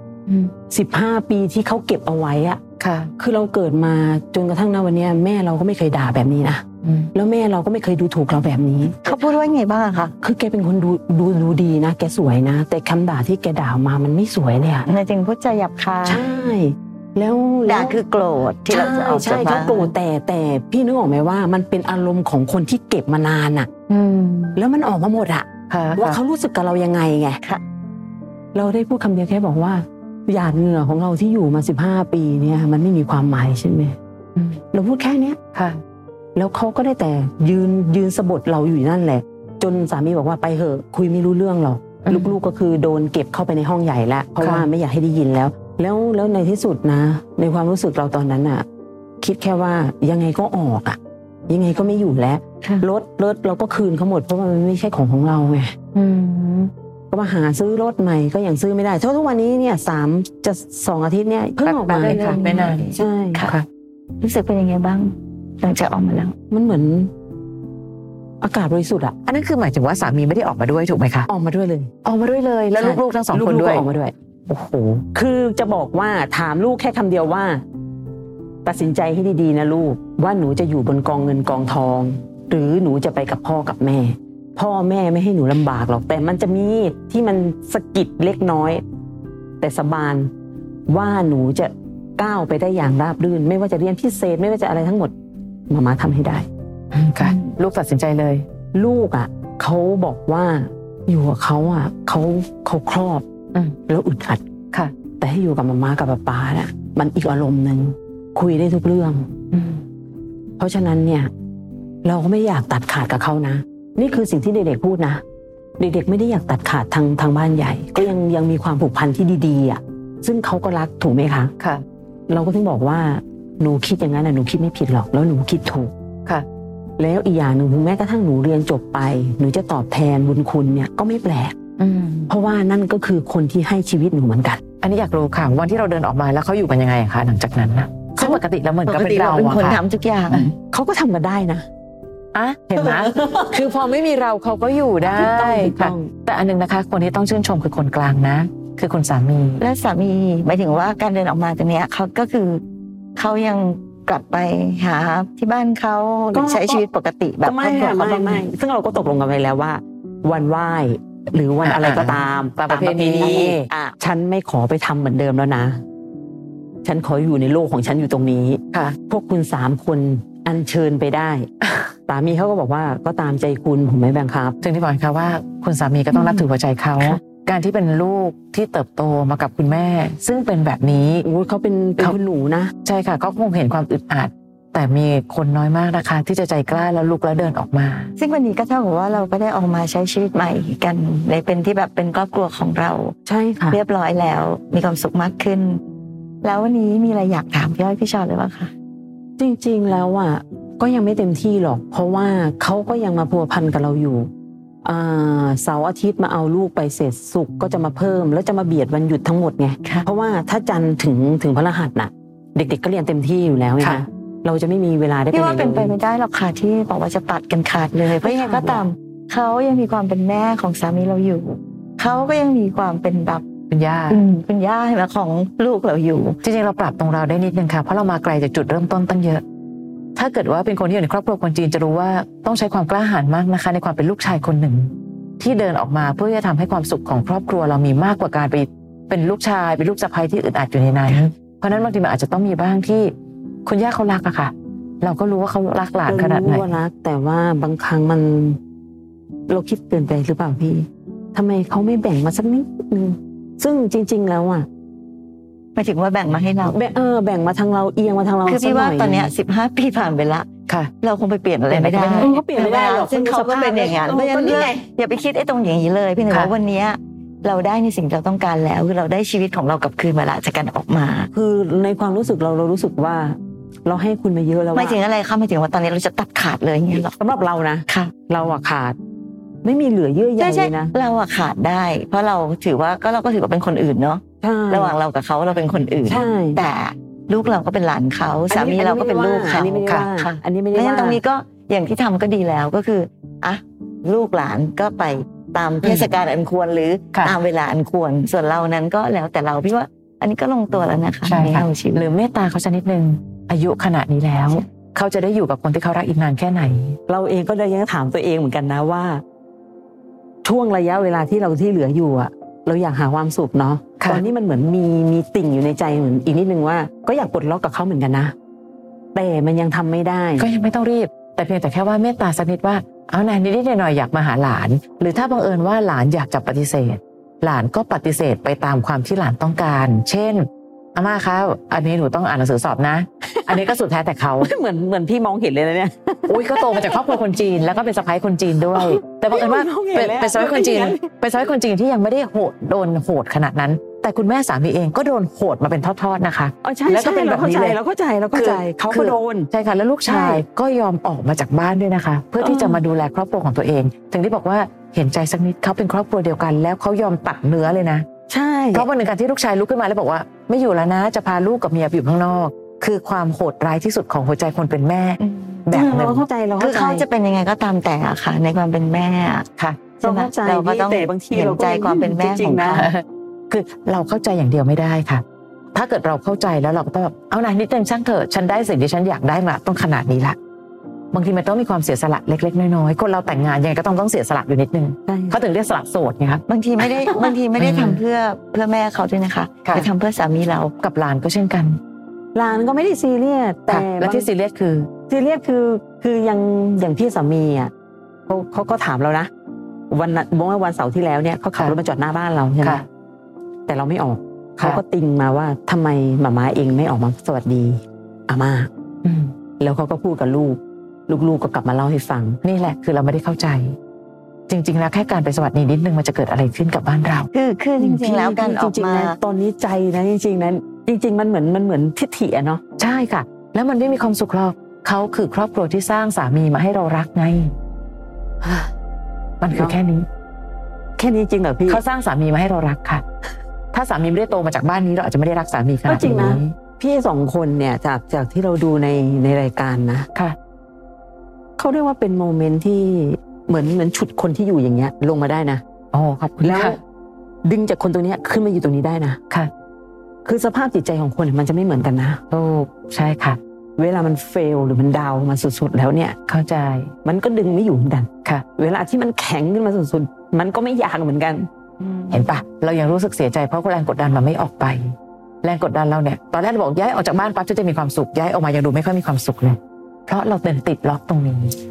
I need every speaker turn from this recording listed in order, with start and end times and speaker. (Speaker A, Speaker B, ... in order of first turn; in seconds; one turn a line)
Speaker A: 0.3-0.5
Speaker B: 0.7-2.6
Speaker A: 2.8-3.1
Speaker B: 3.2-6.6
Speaker A: 6.8-7.1
Speaker B: 7.1-9.2
Speaker C: 9.0-10.1
Speaker B: 10.2-14.9
Speaker C: 14.8-16.3
Speaker B: 16.0-18.0
Speaker C: 17.7-19.9
Speaker B: 18.7-23.7
Speaker A: 23.9-24.6
Speaker B: 24.6-27.4
Speaker A: 25.7-26.2
Speaker B: 28.6-34.0
Speaker A: 34.4-34.6
Speaker B: 34.7-35.4
Speaker A: 35.5-35.8
Speaker B: 36.4-48.6
Speaker A: 42.0-42.3
Speaker A: 44.4-44.7
Speaker B: 49.2-51.0
Speaker B: 51.5-55.7
Speaker A: 55.9-56.7
Speaker B: 57.1-62.2
Speaker A: 61.6-62.9
Speaker C: 62.0-63.5
Speaker B: 62.9-63.5
Speaker C: 64.2-66.3
Speaker B: 66.5-67.1
Speaker B: 68.4-69.2
Speaker A: 69.3-71.3
Speaker B: 71.3-71.9
Speaker A: 72.0-73.9
Speaker B: 72.8-77.6
Speaker A: 74.5-74.8
Speaker B: 78.7-88.8
Speaker B: 89.6-90.3
Speaker B: 90.9-95.1
Speaker B: 95.7-96.5
Speaker A: 96.9-98.5
Speaker B: 98.7-103.2
Speaker B: 103.9-104.4
Speaker B: 105.2-109.3
Speaker A: 109.5-109.8
Speaker B: 110.6-111.3
Speaker B: 112.0-115.2
Speaker B: 115.8-121.5
Speaker B: 122.3-125.9
Speaker B: 127.0-131.6
Speaker A: 131.8-132.3
Speaker B: 132.3-134.6
Speaker A: 134.8-139.8
Speaker C: 138.9-140.6
Speaker B: 140.7-141.7
Speaker A: 142.3-149.6
Speaker B: 142.7-143.6
Speaker B: 145.0-146.1
Speaker C: 149.6-152.6
Speaker C: 153.2-158.5
Speaker B: 156.3-156.9
Speaker B: 157.4-165.8
Speaker A: 161.6-163.7
Speaker C: 163.2-163.6
Speaker B: 166.8-171.5
Speaker A: 168.7-169.0
Speaker B: 172.1-174.6
Speaker A: 174.6-181.2
Speaker B: 176.1-176.4
Speaker B: 181.2-182.7
Speaker A: 182.8-188.1
Speaker C: 188.2-193.1
Speaker B: 193.3-193.8
Speaker C: 193.7-195.8
Speaker C: 196.4-198.7
Speaker B: 199.4-204.3
Speaker B: 204.8-215.9
Speaker C: 215.3-223.4
Speaker B: 218.2-218.8
Speaker A: 223.7-224.2
Speaker C: 224.1-226.4
Speaker A: 226.4-229.4
Speaker A: 230.2-243.1
Speaker A: 243.7-246.7
Speaker B: 246.1-248.6
Speaker B: 249.5-254.7
Speaker C: 255.8-256.8
Speaker B: 256.6-259.3
Speaker C: 258.4-260.5
Speaker C: 261.0-271.3
Speaker A: 261.7-262.3
Speaker B: 262.2-264.8
Speaker B: 271.3-275.0
Speaker C: 274.7-277.2
Speaker B: 277.2-279.0
Speaker C: 277.9-278.1
Speaker B: 279.6-280.9
Speaker C: 280.4-302.1
Speaker B: 284.4-285.0
Speaker B: 286.1-286.6
Speaker B: 288.5-291.2
Speaker A: 295.8-296.1
Speaker A: 301.3-307.0
Speaker B: 307.1-309.2
Speaker B: 310.4-318.3
Speaker A: 314.0-314.2
Speaker B: 319.1-320.5
Speaker A: 320.4-334.5
Speaker B: 333.4-333.8
Speaker B: 334.4-337.2
Speaker A: 336.3-347.8
Speaker B: 338.7-341.1
Speaker B: 346.6-349.5
Speaker A: 348.3-358.1
Speaker B: 350.1-350.4
Speaker B: 352.4-352.8
Speaker B: 358.3-358.9
Speaker A: 358.7-366.2
Speaker C: 365.2-365.7
Speaker B: 365.7-367.1
Speaker C: 366.6-369.5
Speaker A: 369.6-369.8
Speaker B: 370.0-372.9
Speaker C: 370.0-372.9
Speaker A: 372.8-375.2
Speaker A: 375.7-380.4
Speaker A: 381.1-386.4
Speaker B: 385.1-385.4
Speaker C: 386.5-390.7
Speaker B: 386.8-387.4
Speaker A: 387.6-388.0
Speaker A: 390.8-391.8
Speaker B: 392.4-394.3
Speaker A: 393.7-394.9
Speaker B: 395.1-397.7
Speaker B: 398.3-399.3
Speaker B: 399.9-402.8
Speaker B: 403.7-408.7
Speaker A: 409.0-409.3
Speaker B: 409.6-412.4
Speaker A: 412.4-413.8
Speaker A: 414.5-417.3
Speaker C: 417.3-419.2
Speaker B: 417.8-422.6
Speaker A: 422.8-427.5
Speaker B: 428.4-428.7
Speaker A: 429.4-430.1
Speaker B: 429.5-429.8
Speaker B: 431.0-431.8
Speaker A: 431.7-433.0
Speaker A: 433.7-436.5
Speaker B: 435.9-440.1
Speaker B: 441.6-445.6
Speaker A: 445.9-446.8
Speaker B: 446.4-446.8
Speaker B: 447.4-449.2
Speaker B: 450.2-452.2
Speaker A: 452.3-453.4
Speaker B: 453.8-456.2
Speaker A: 456.3-456.9
Speaker B: 457.1-461.5
Speaker A: 462.1-471.6